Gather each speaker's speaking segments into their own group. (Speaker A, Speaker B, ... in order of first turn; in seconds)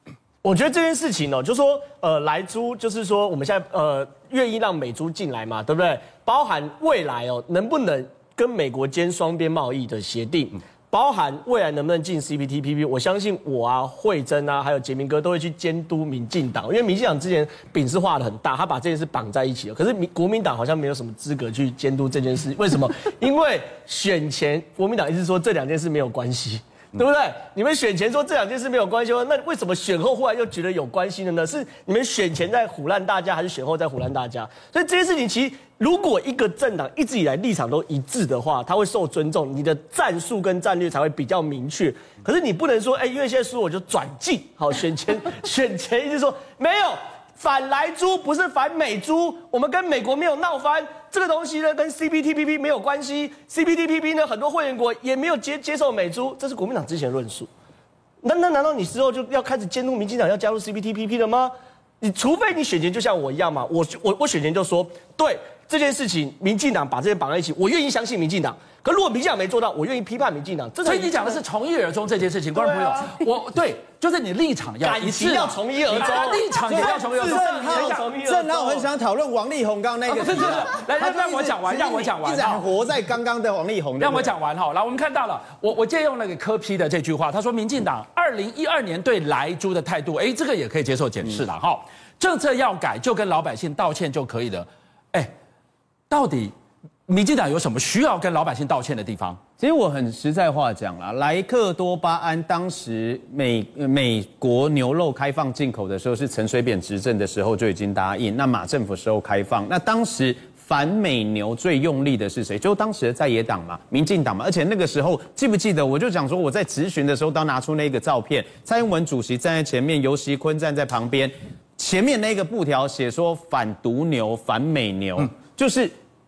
Speaker A: 0.4-57.5, 58.2-71.4, 72.5-73.0, 74.8-78.9
Speaker B: 70.8-78.0, 80.1-82.7, 84.0-95.3, 96.1-96.5, 97.1-99.4
Speaker C: 76.6-84.3, 99.6-125.9